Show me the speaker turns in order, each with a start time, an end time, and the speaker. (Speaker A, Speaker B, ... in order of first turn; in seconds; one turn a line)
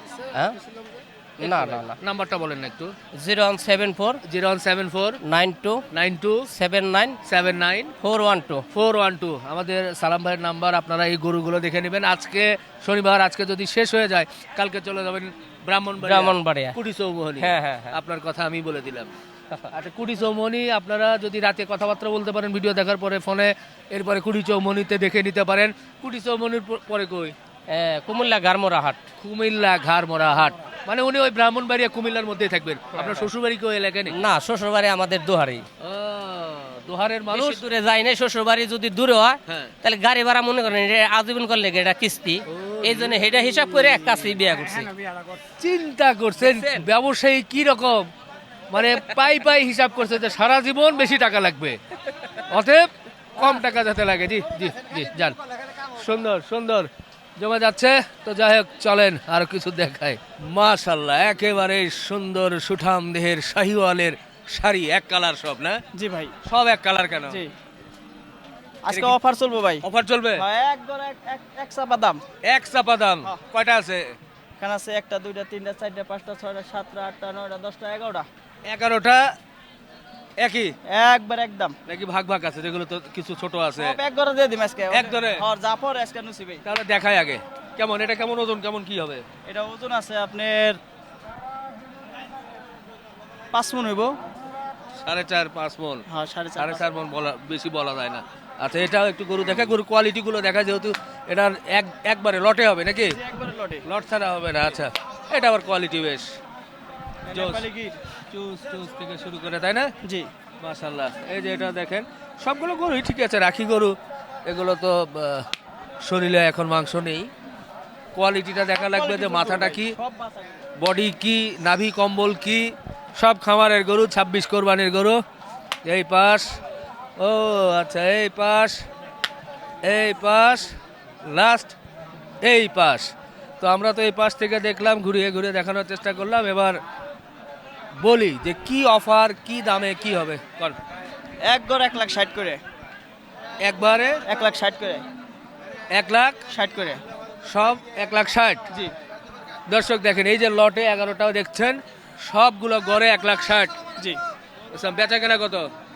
Speaker A: 0.3-0.6
Speaker B: 0.7-2.9
Speaker A: 1.4-2.0
Speaker A: 3.1-4.2
Speaker B: 4.2-5.2
Speaker A: 5.2-5.8
Speaker B: 5.9-6.5
Speaker A: 6.5-7.2
Speaker B: 7.2-7.9
Speaker A: 8.0-8.7
Speaker B: 8.7-19.2
Speaker A: 16.0-16.8
Speaker A: 17.4-18.0
Speaker B: 19.7-27.4
Speaker A: 27.7-29.0
Speaker B: 29.2-34.2
Speaker A: 32.9-33.3
Speaker A: 34.1-35.6
Speaker B: 35.8-37.6
Speaker A: 37.3-44.9
Speaker B: 39.5-39.7
Speaker B: 42.5-44.4
Speaker B: 45.6-48.1
Speaker A: 46.4-46.9
Speaker B: 48.7-51.8
Speaker B: 52.5-65.8
Speaker C: 65.9-66.3
Speaker B: 66.4-67.4
Speaker C: 68.8-69.8
Speaker B: 68.9-69.2
Speaker B: 69.8-70.4
Speaker C: 70.4-72.2
Speaker B: 72.5-74.1
Speaker C: 74.6-78.3
Speaker B: 78.7-79.3
Speaker B: 80.4-80.7
Speaker C: 80.9-81.8
Speaker B: 81.9-84.0
Speaker C: 83.8-86.6
Speaker B: 84.9-85.5
Speaker B: 86.7-89.2
Speaker C: 89.5-90.8
Speaker C: 93.5-94.2
Speaker B: 95.0-96.0
Speaker C: 96.1-96.8
Speaker B: 96.6-103.2
Speaker C: 103.1-103.8
Speaker B: 103.8-106.2
Speaker C: 107.3-108.0
Speaker B: 107.3-107.6
Speaker B: 108.3-109.9
Speaker C: 110.0-110.3
Speaker B: 110.6-115.5
Speaker B: 116.0-117.3
Speaker B: 118.1-120.0
Speaker C: 118.7-120.6
Speaker B: 120.8-125.2
Speaker B: 125.8-126.6
Speaker B: 127.2-128.8
Speaker B: 129.8-130.7
Speaker B: 131.2-131.8
Speaker B: 132.4-133.1
Speaker B: 133.6-136.8
Speaker B: 138.0-140.8
Speaker C: 141.4-142.6
Speaker B: 143.6-144.2
Speaker C: 144.3-145.1
Speaker B: 145.9-146.4
Speaker C: 146.5-147.0
Speaker B: 147.5-148.6
Speaker B: 149.7-153.7
Speaker B: 154.7-155.7